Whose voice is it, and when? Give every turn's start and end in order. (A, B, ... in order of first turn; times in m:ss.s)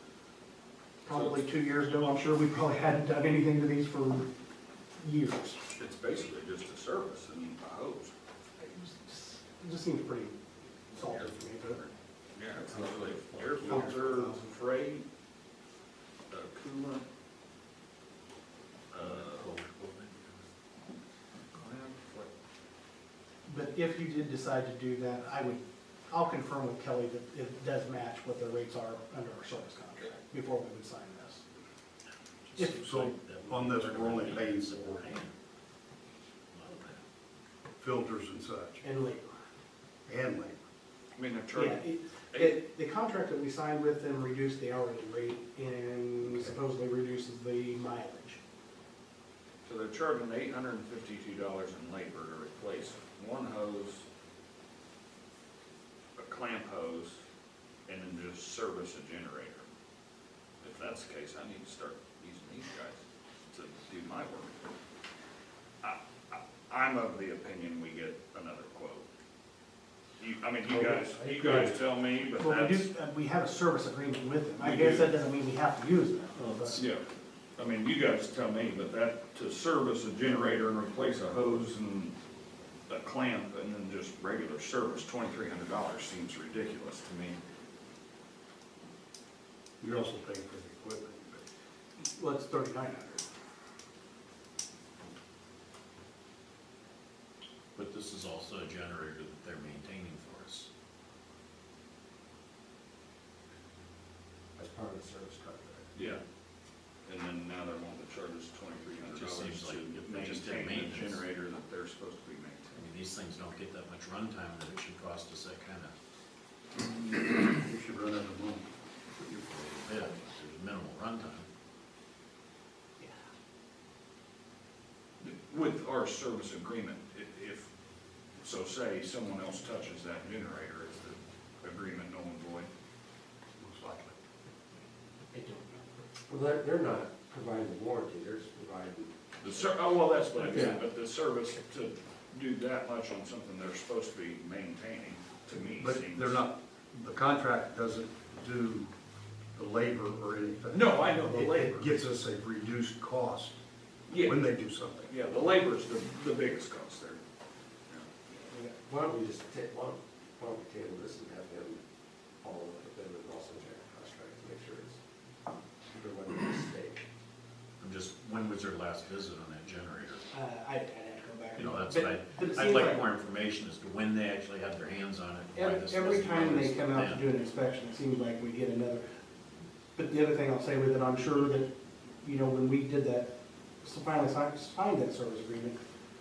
0:01.0-0:04.3 A
0:01.1-0:01.4 B
0:05.0-0:05.6 A
0:05.8-0:08.1 B
0:08.6-0:11.8 A
0:12.3-0:15.0 B
0:12.8-0:13.9 C
0:13.6-0:14.4 A
0:16.3-0:17.0 B
0:18.9-0:19.5 B
0:18.9-0:20.4 D
0:21.6-0:22.3 B
0:23.5-0:31.4 A
0:32.4-0:35.3 D
0:32.8-0:35.1 E
0:36.5-0:37.0 D
0:37.8-0:38.8 E
0:38.8-0:39.3 A
0:40.1-0:40.6 E
0:41.2-0:42.6 B
0:41.5-0:48.4 A
0:46.2-0:46.5 E
0:49.6-0:54.0 B
0:56.2-0:57.2 B
0:57.9-0:59.7 B
1:00.6-1:04.7 B
1:05.8-1:09.0 B
1:10.2-1:12.9 B
1:10.7-1:11.6 C
1:12.4-1:16.8 A
1:14.6-1:15.1 B
1:16.7-1:17.0 B
1:17.6-1:22.1 B
1:22.9-1:27.4 B
1:29.8-1:31.4 E
1:32.0-1:33.2 A
1:37.8-1:40.7 D
1:44.6-1:45.9 C
1:45.9-1:46.2 B
1:47.0-1:52.8 B
1:49.0-1:51.2 D
1:52.8-1:55.9 D
1:57.0-1:58.7 E
1:59.2-2:01.5 D
2:05.2-2:07.7 B
2:08.4-2:12.7 B
2:13.6-2:14.2 E
2:15.3-2:15.9 A
2:16.3-2:19.1 C
2:19.4-2:26.4 B
2:20.4-2:20.8 C
2:25.8-2:28.9 E
2:29.5-2:33.6 E
2:30.7-2:31.9 B
2:34.1-2:34.5 B
2:34.1-2:35.1 E
2:35.0-2:37.2 B
2:38.5-2:38.7 A
2:38.6-2:41.8 C
2:42.4-2:45.0 C
2:45.9-2:47.0 C
2:47.8-2:50.3 D
2:50.3-2:53.1 A
2:51.6-2:57.3 D
2:55.5-2:59.0 A
3:00.0-3:01.7 A
3:02.2-3:03.3 A
3:03.8-3:05.8 A